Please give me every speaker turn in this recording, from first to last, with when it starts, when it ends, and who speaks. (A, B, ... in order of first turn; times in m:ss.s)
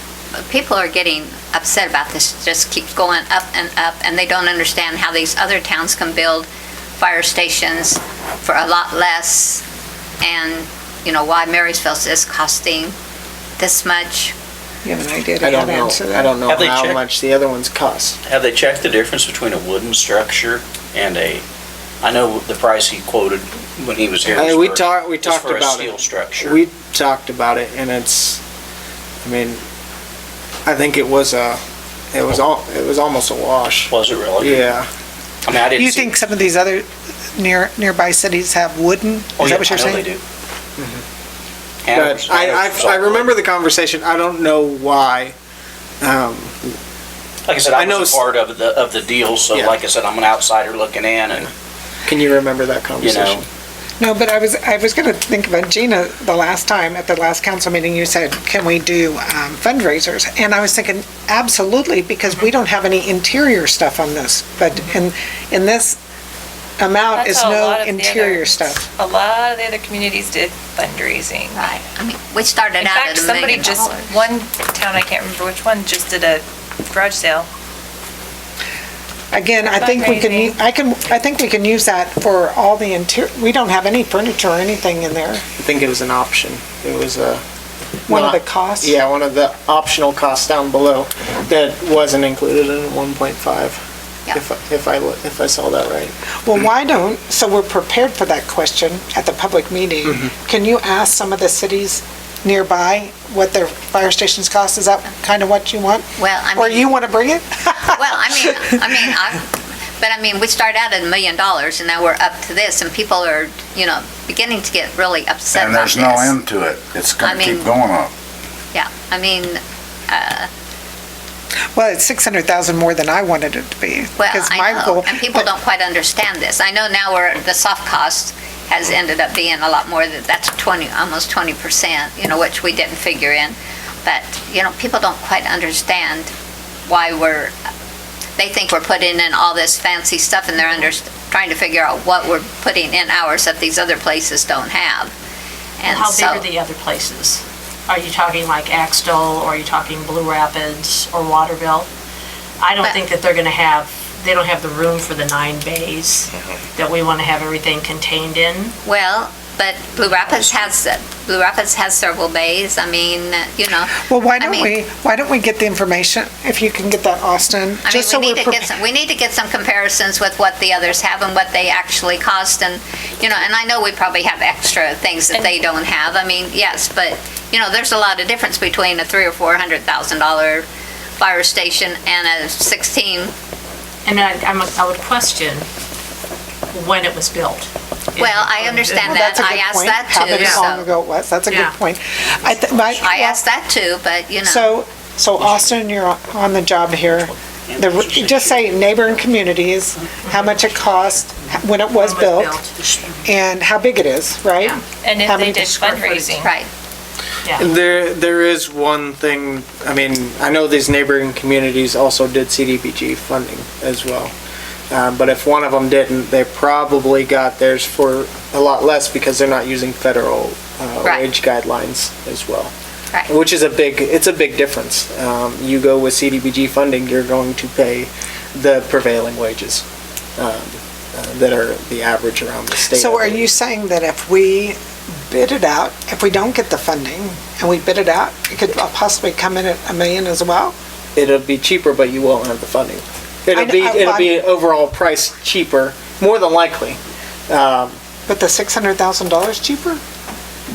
0:00.3-0:09.6 A
0:10.2-0:12.9 A
0:13.6-0:14.3 A
0:14.8-0:16.3 B
0:15.4-0:18.2 C
0:16.4-0:17.0 D
0:18.2-0:21.4 D
0:22.0-0:26.6 D
0:24.3-0:28.4 C
0:29.2-0:29.6 C
0:30.6-0:31.6 C
0:32.1-0:34.9 C
0:33.9-0:34.7 D
0:35.4-0:36.1 D
0:35.7-0:40.1 B
0:39.4-0:40.2 D
0:40.8-0:41.0 C
0:41.8-0:43.4 D
0:41.9-0:45.3 C
0:46.0-0:46.8 C
0:47.5-0:51.5 D
0:47.7-0:48.2 C
0:52.0-0:53.4 C
0:53.0-0:53.4 D
0:54.0-1:06.0 B
1:06.8-1:08.8 B
1:07.1-1:11.7 E
1:11.5-1:14.2 A
1:12.8-1:17.5 E
1:19.3-1:25.4 B
1:19.6-1:20.6 E
1:25.6-1:27.4 C
1:28.1-1:33.8 C
1:28.1-1:29.0 B
1:34.3-1:36.2 C
1:36.4-1:48.6 B
1:46.2-1:46.9 A
1:47.9-1:56.4 A
1:55.5-1:58.1 F
1:57.2-1:57.7 A
1:58.7-2:00.5 A
2:01.7-2:05.5 B
2:04.2-2:16.3 A
2:16.9-2:17.5 A
2:18.4-2:25.1 A
2:25.8-2:26.4 A
2:25.8-2:31.9 G
2:32.6-2:38.7 G
2:38.8-2:44.7 A
2:44.0-2:48.7 B
2:47.8-3:00.6 A
3:01.2-3:03.3 A
3:04.0-3:05.6 G
3:06.7-3:09.1 G
3:08.2-3:10.8 A
3:09.0-3:13.4 B
3:10.3-3:10.6 G
3:11.5-3:11.7 G
3:13.0-3:14.7 A
3:14.4-3:22.6 B
3:17.7-3:18.7 D
3:21.9-3:23.3 G
3:23.2-3:26.0 B
3:25.0-3:26.5 E
3:25.8-3:26.4 G
3:26.4-3:26.7 A
3:27.4-3:27.7 G
3:27.5-3:34.3 C
3:34.9-3:42.7 C
3:43.3-3:49.8 C
3:50.4-3:53.4 C
3:52.9-4:00.7 B
4:01.1-4:08.0 C
4:03.5-4:04.4 B
4:08.3-4:10.0 B